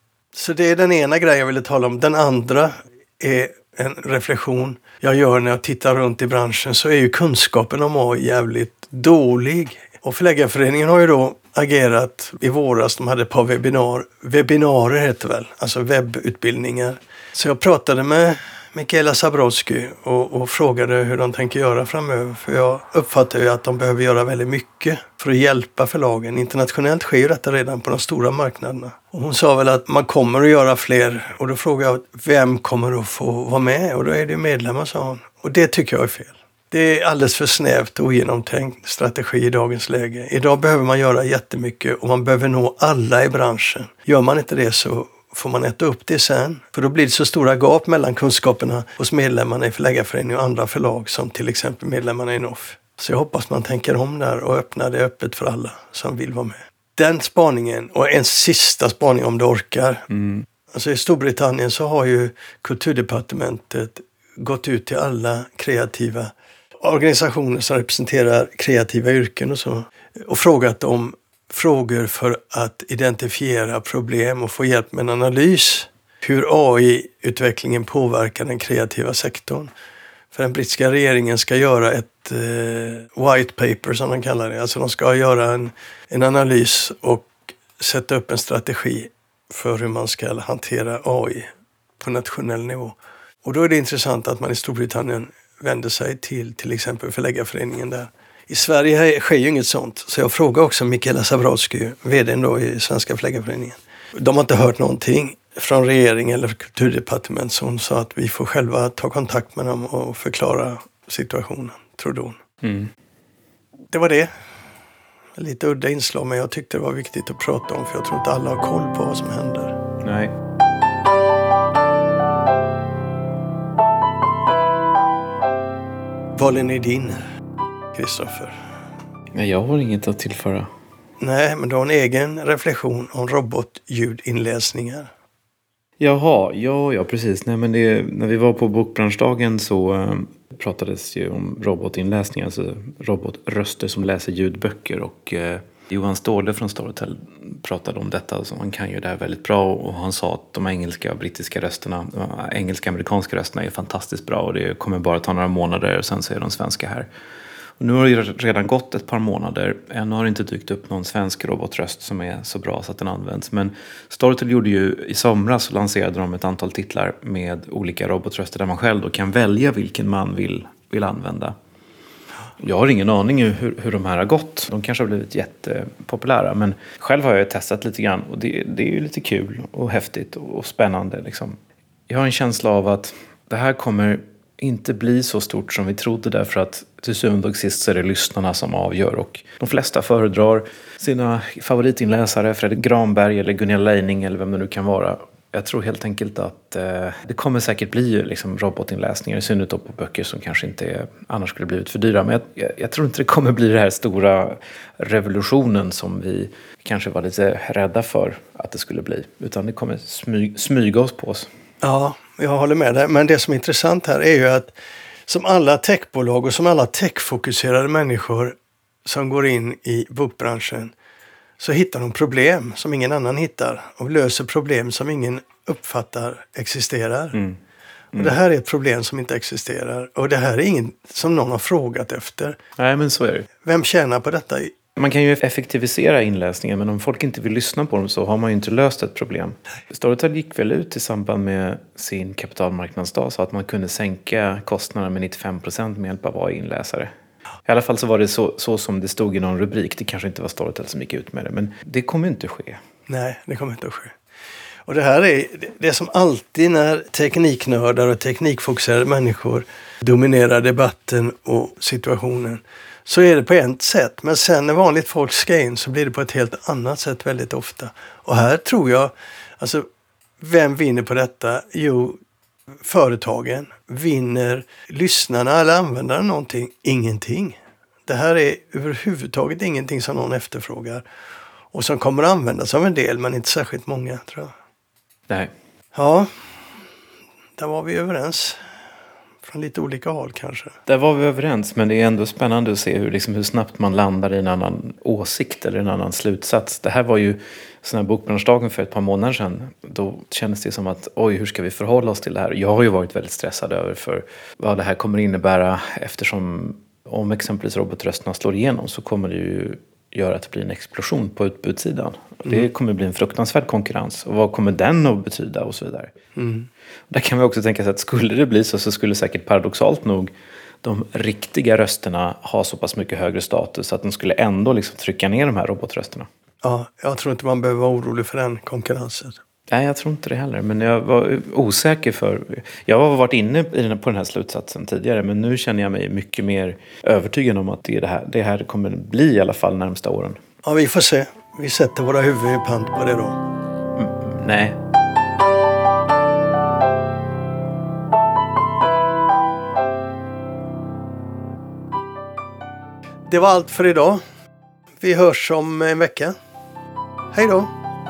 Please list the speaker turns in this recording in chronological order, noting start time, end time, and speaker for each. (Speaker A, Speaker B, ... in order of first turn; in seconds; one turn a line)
Speaker A: 0.3-60.0
Speaker B: 60.1-60.5
Speaker A: 60.7-79.7
Speaker A: 80.3-112.4
Speaker B: 112.6-112.9
Speaker A: 113.9-114.3
Speaker A: 115.3-119.8
Speaker B: 120.0-120.3
Speaker A: 126.3-127.2
Speaker A: 127.9-128.6
Speaker B: 129.3-130.7
Speaker A: 131.2-135.1
Speaker B: 136.0-157.1
Speaker B: 157.8-171.5
Speaker B: 172.6-181.6
Speaker B: 182.1-211.5
Speaker A: 211.8-214.7
Speaker A: 215.3-220.9
Speaker A: 221.6-227.4
Speaker B: 227.3-227.6
Speaker A: 228.1-232.6
Speaker B: 232.8-233.5
Speaker A: 233.6-234.7
Speaker B: 234.9-247.1
Speaker B: 247.7-252.8
Speaker A: 253.1-254.1
Speaker A: 254.9-269.9
Speaker A: 270.4-272.2
Speaker A: 272.8-281.0
Speaker A: 281.7-284.5
Speaker A: 285.9-286.3
Speaker A: 287.6-288.6
Speaker A: 289.4-290.8
Speaker B: 290.9-316.1
Speaker A: 316.4-316.7
Speaker B: 317.1-320.3
Speaker B: 320.8-326.3
Speaker A: 326.6-329.4
Speaker B: 329.7-340.4
Speaker A: 340.6-343.4
Speaker B: 343.9-344.8
Speaker A: 353.3-354.2
Speaker A: 355.0-356.3
Speaker A: 357.3-357.7